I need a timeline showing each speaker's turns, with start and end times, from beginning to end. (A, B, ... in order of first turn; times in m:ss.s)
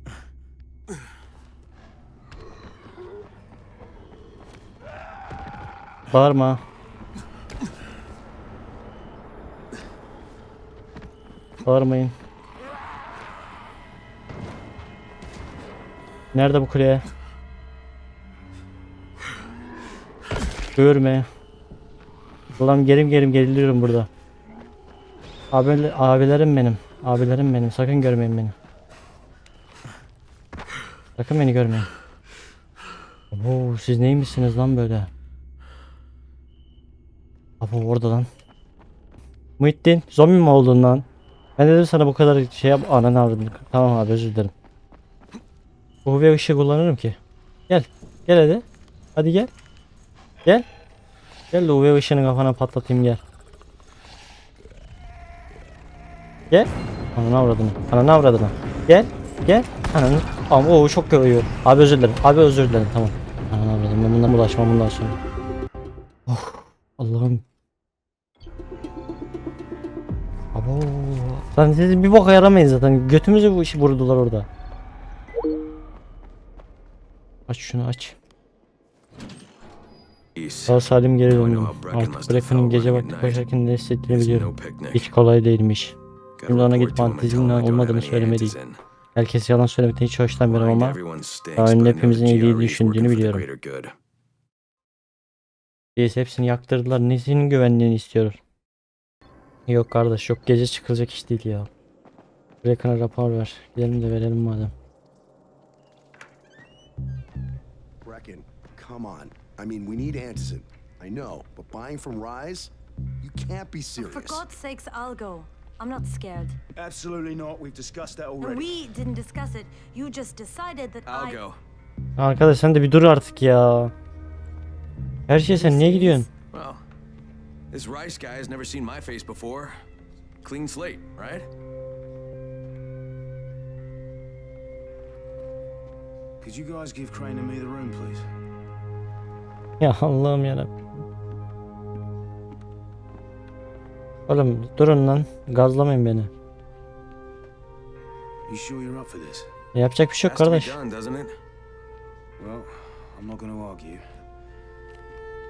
0:06.1-0:06.6 A
0:11.6-0:12.1 A
0:16.3-0:17.0 A
0:20.8-0:21.3 A
0:22.6-0:24.1 A
0:25.5-0:28.6 A
0:31.2-0:31.9 A
0:33.3-0:35.1 A
0:37.6-0:38.3 A
0:39.6-0:41.1 A
0:41.6-0:44.5 A
0:46.0-0:47.2 A
0:47.7-0:48.6 A
0:49.2-0:49.5 A
0:51.5-0:53.2 A
0:56.5-1:05.2 A
1:06.3-1:07.4 A
1:10.6-1:14.5 A
1:17.5-1:18.2 A
1:20.4-1:23.4 B
1:20.7-1:28.6 A
1:24.1-1:25.1 B
1:26.4-1:28.8 B
1:29.2-1:31.0 A
1:30.5-1:33.9 B
1:31.6-1:33.4 A
1:36.0-1:38.4 A
1:39.7-1:41.7 A
1:42.6-1:44.7 A
1:48.0-1:54.4 C
1:53.9-1:56.6 D
1:56.8-1:58.7 E
1:58.4-2:01.4 D
2:01.1-2:01.6 B
2:02.2-2:03.9 A
2:05.3-2:06.3 A
2:05.5-2:06.3 D
2:06.5-2:06.8 B
2:07.7-2:09.8 B
2:10.4-2:11.5 B
2:16.4-2:18.2 E
2:19.8-2:20.7 A
2:24.3-2:26.3 A
2:28.5-2:29.5 E
2:29.7-2:30.8 A
2:30.2-2:31.4 B
2:32.4-2:34.0 E